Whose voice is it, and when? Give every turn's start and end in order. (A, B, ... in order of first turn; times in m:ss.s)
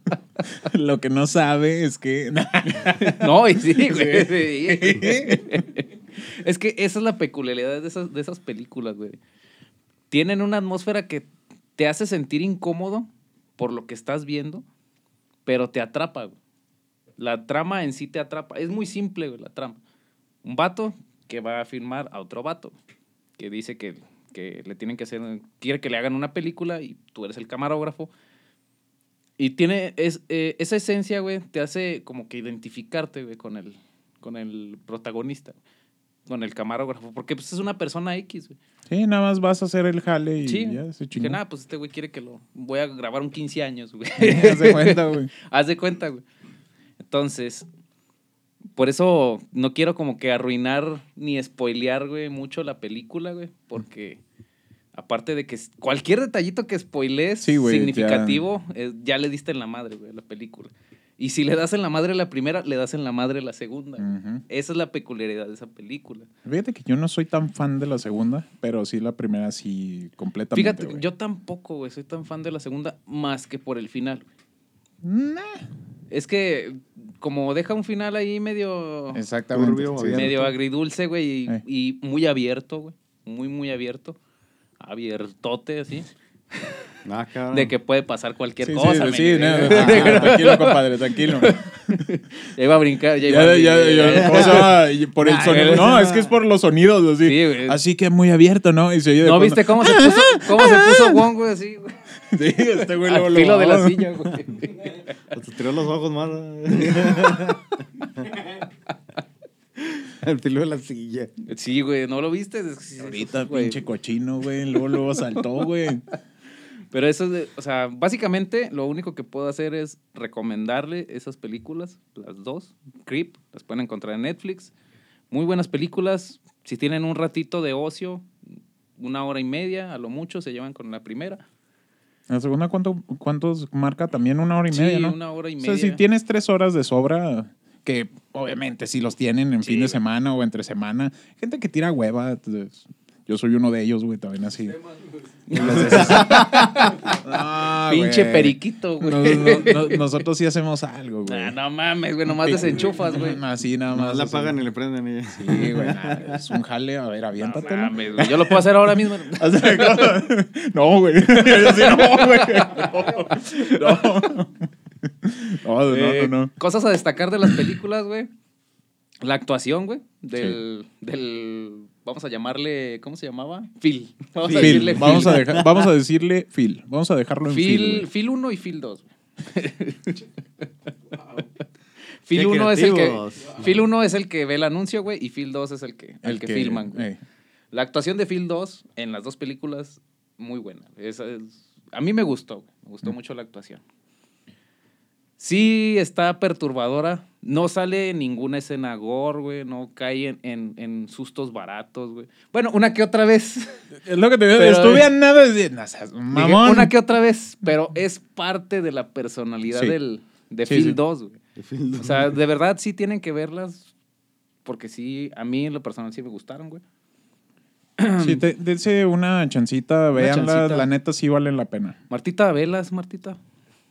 0:00.5-0:05.6 A
0:02.8-0:09.2 B
0:10.1-0:14.6 B
0:15.4-0:16.4 B
0:17.2-0:19.8 B
0:20.4-0:22.7 B
0:23.4-0:28.1 B
0:29.4-0:35.6 B
0:36.3-0:38.6 B
0:38.9-0:41.4 A
0:40.4-0:46.2 B
0:44.2-0:45.3 A
0:47.0-0:47.7 B
0:48.8-0:54.2 B
0:54.9-1:06.3 B
0:57.4-0:58.4 A
1:04.0-1:04.4 A
1:06.4-1:11.0 A
1:10.5-1:14.2 B
1:15.0-1:15.6 A
1:16.1-1:19.2 B
1:19.1-1:20.4 A
1:19.5-1:20.5 C
1:20.1-1:24.2 B
1:24.8-1:26.1 B
1:27.0-1:27.7 C
1:27.5-1:36.1 B
1:28.6-1:32.0 A
1:29.6-1:30.4 C
1:33.2-1:41.2 A
1:34.1-1:34.7 C
1:35.5-1:36.2 C
1:37.2-1:37.8 B
1:39.2-1:42.0 B
1:42.3-1:44.2 A
1:42.8-1:45.0 B
1:45.3-1:48.2 C
1:50.1-1:51.3 C
1:51.5-1:53.8 B
1:53.0-1:56.0 A
1:56.9-2:04.7 B
2:05.3-2:08.3 B
2:09.0-2:11.4 B
2:12.3-2:24.8 A
2:14.7-2:16.0 B
2:19.6-2:20.0 B
2:25.5-2:27.0 B
2:25.5-2:26.6 A
2:25.5-2:26.9 C
2:27.2-2:31.5 A
2:27.8-2:30.0 B
2:31.2-2:33.4 B
2:32.3-2:34.6 A
2:33.9-2:36.4 C
2:35.3-2:38.7 A
2:37.4-2:40.2 B
2:39.3-2:46.5 A
2:41.4-2:44.3 B
2:45.9-2:48.3 B
2:47.4-2:47.7 A
2:49.2-2:55.4 B
2:54.4-2:55.8 C
2:54.6-2:58.1 A
2:57.5-3:00.2 B
3:02.2-3:07.0 B
3:02.3-3:03.8 C
3:06.2-3:07.2 A
3:07.7-3:13.8 B
3:15.4-3:23.8 B
3:23.9-3:26.9 A
3:24.5-3:25.1 B
3:26.3-3:31.4 B
3:29.7-3:30.0 A
3:30.6-3:31.0 A
3:31.6-3:32.4 C
3:32.0-3:33.9 B
3:34.6-3:36.8 B
3:38.0-3:38.4 B
3:38.2-3:42.0 A
3:40.1-3:40.9 B
3:42.1-3:43.4 B